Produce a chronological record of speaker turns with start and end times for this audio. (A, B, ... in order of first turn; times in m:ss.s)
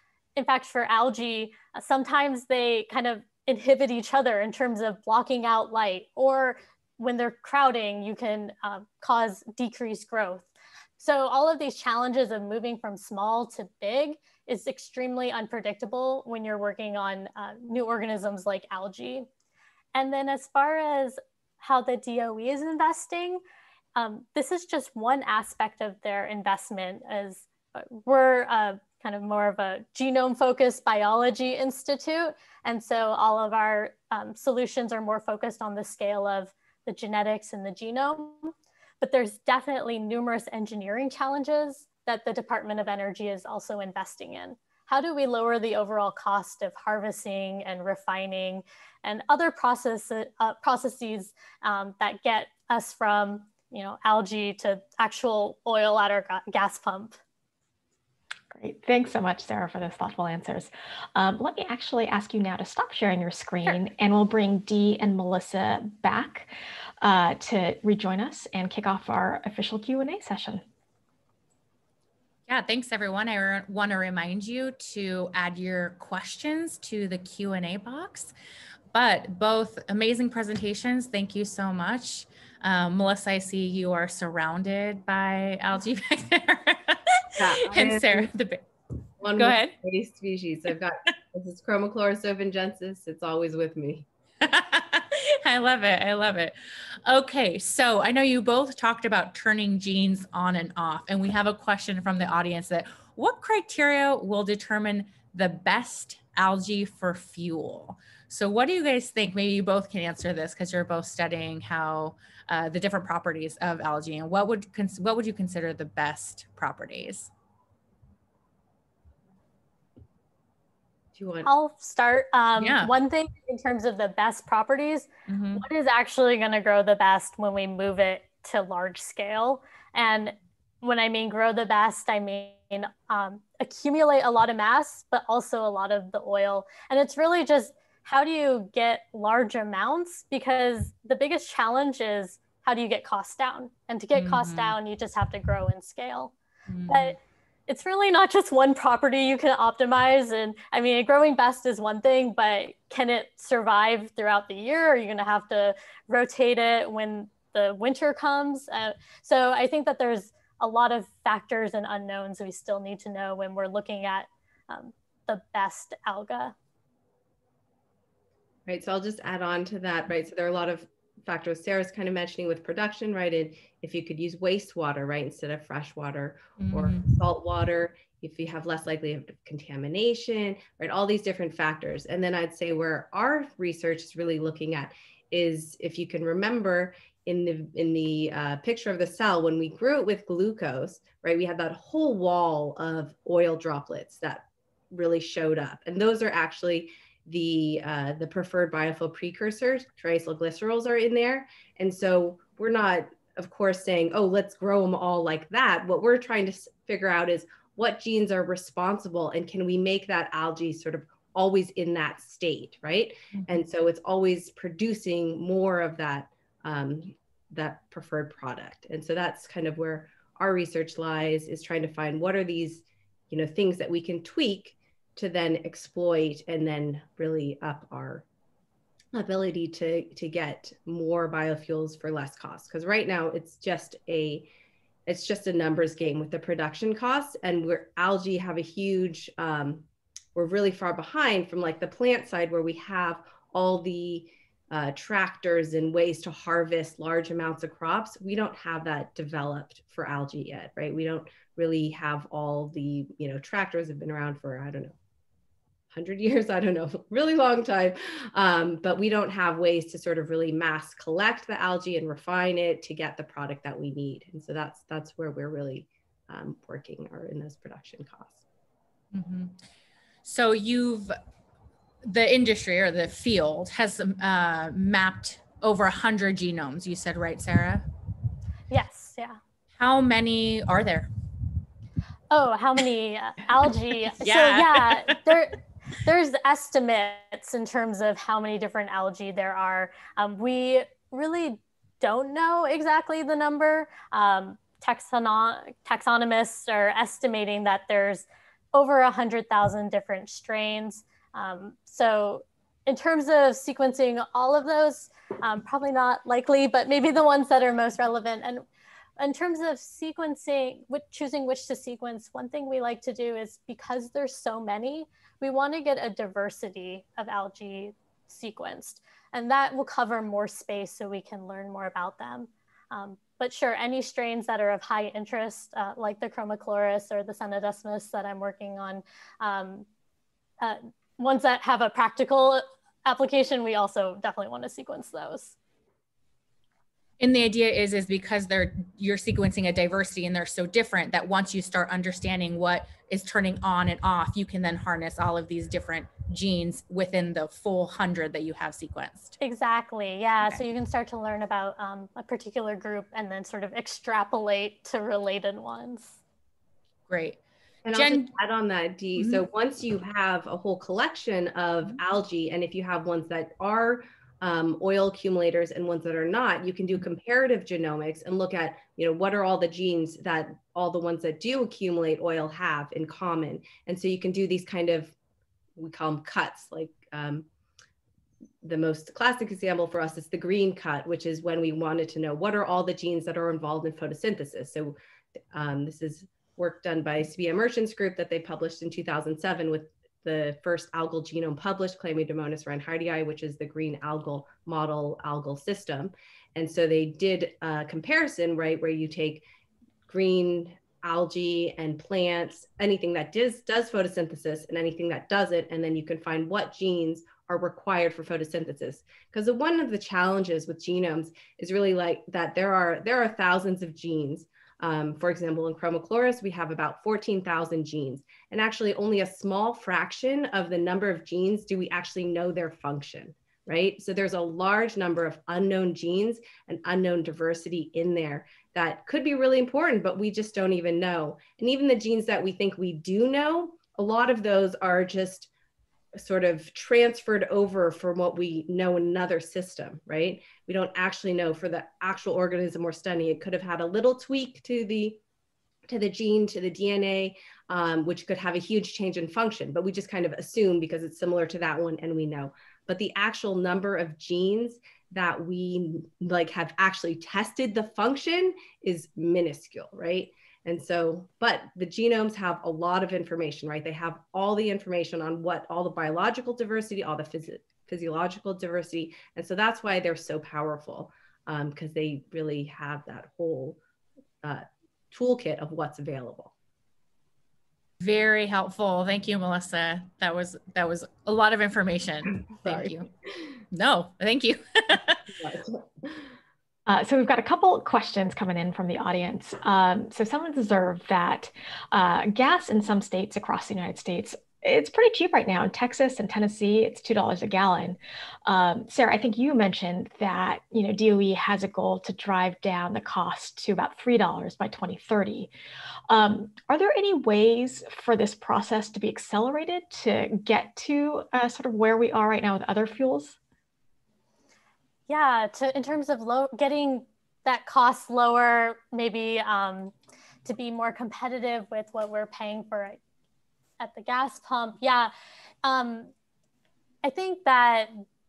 0:00.4-0:19.3 A
0:19.9-0:23.4 A
0:24.0-0:57.2 A
0:58.5-1:10.6 B
1:12.5-1:18.3 C
1:18.9-1:28.6 C
1:27.4-1:28.3 D
1:29.2-1:34.0 D
1:29.4-1:29.7 C
1:34.4-1:36.5 C
1:37.0-1:57.3 C
2:01.1-2:01.5 D
2:01.4-2:26.3 A
2:02.6-2:02.9 C
2:05.3-2:05.6 C
2:24.1-2:24.8 C
2:26.7-2:27.2 C
2:26.9-2:46.5 A
2:48.6-3:48.2 D
2:56.6-2:57.2 C
3:33.3-3:33.6 C
3:49.1-3:54.5 D
3:55.0-4:14.9 D
4:15.9-4:28.4 D
4:29.1-4:29.6 C
4:30.2-4:31.1 C
4:32.0-4:37.8 C
4:38.7-4:39.4 A
4:39.8-4:41.1 C
4:42.3-5:08.6 A
4:44.1-4:45.4 C
5:09.2-5:29.8 A
5:30.6-5:35.6 A
5:37.2-5:49.4 C
5:49.4-5:56.2 A
5:57.1-5:57.4 C
5:57.8-6:15.1 D
5:57.9-5:58.3 C
5:59.2-5:59.4 C
6:15.8-6:17.4 D
6:18.6-6:24.9 D
6:25.5-6:39.4 D
6:40.1-7:15.5 D
7:16.1-7:25.2 D
7:25.9-7:53.8 D
7:54.4-7:56.5 D
7:58.0-8:03.1 C
8:02.6-8:02.9 D
8:03.7-8:05.3 C
8:05.4-8:06.2 D
8:06.9-8:25.5 B
8:26.1-8:33.4 B
8:35.1-8:39.9 A
8:40.4-8:43.0 A
8:43.8-8:45.1 A
8:45.6-8:46.1 A
8:47.0-8:48.0 A